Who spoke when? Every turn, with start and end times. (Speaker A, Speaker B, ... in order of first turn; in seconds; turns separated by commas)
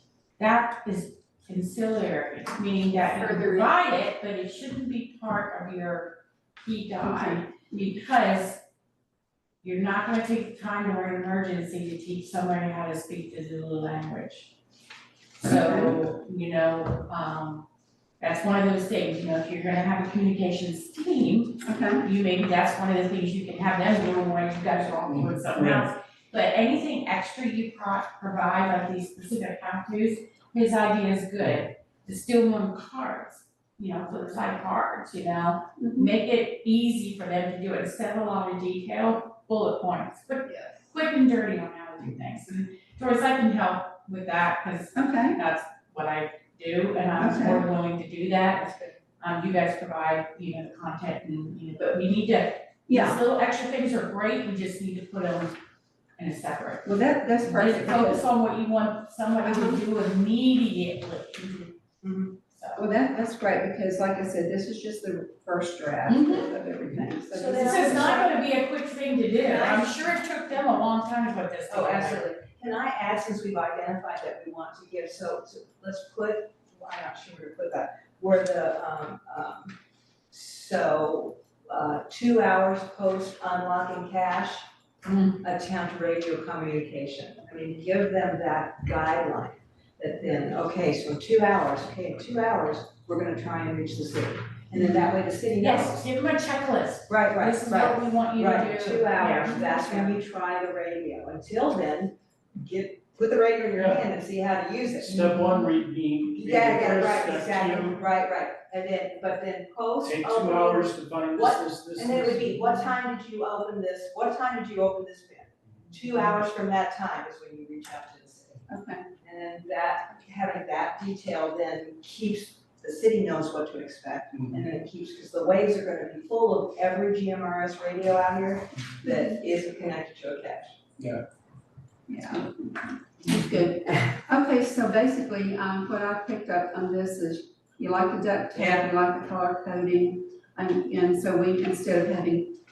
Speaker A: 0.4-8.6, Speaker B: 3.1-3.8, Speaker B: 7.0-7.4, Speaker A: 9.6-14.5, Speaker A: 15.4-17.7, Speaker B: 15.5-16.0, Speaker A: 18.2-55.6, Speaker B: 21.6-22.1, Speaker C: 25.1-25.9, Speaker B: 35.8-36.1, Speaker B: 40.5-40.8, Speaker B: 44.9-45.4, Speaker B: 47.2-47.6, Speaker B: 52.9-53.2, Speaker A: 56.2-56.9, Speaker B: 56.9-58.3, Speaker A: 57.4-61.7, Speaker B: 59.4-59.8, Speaker D: 61.5-62.4, Speaker A: 62.5-62.8, Speaker B: 62.8-68.2, Speaker A: 66.1-66.6, Speaker D: 67.3-68.4, Speaker A: 67.5-72.3, Speaker D: 69.5-70.0, Speaker D: 71.7-79.8, Speaker D: 80.3-84.7, Speaker A: 85.0-85.4, Speaker D: 85.4-96.0, Speaker A: 95.5-100.2, Speaker D: 97.1-105.6, Speaker C: 103.8-104.1, Speaker C: 105.0-108.0, Speaker D: 106.3-130.8, Speaker C: 110.0-112.6, Speaker B: 118.7-119.0, Speaker C: 124.3-124.6, Speaker B: 129.1-129.4, Speaker B: 132.1-142.6, Speaker C: 133.2-133.5, Speaker D: 138.6-138.9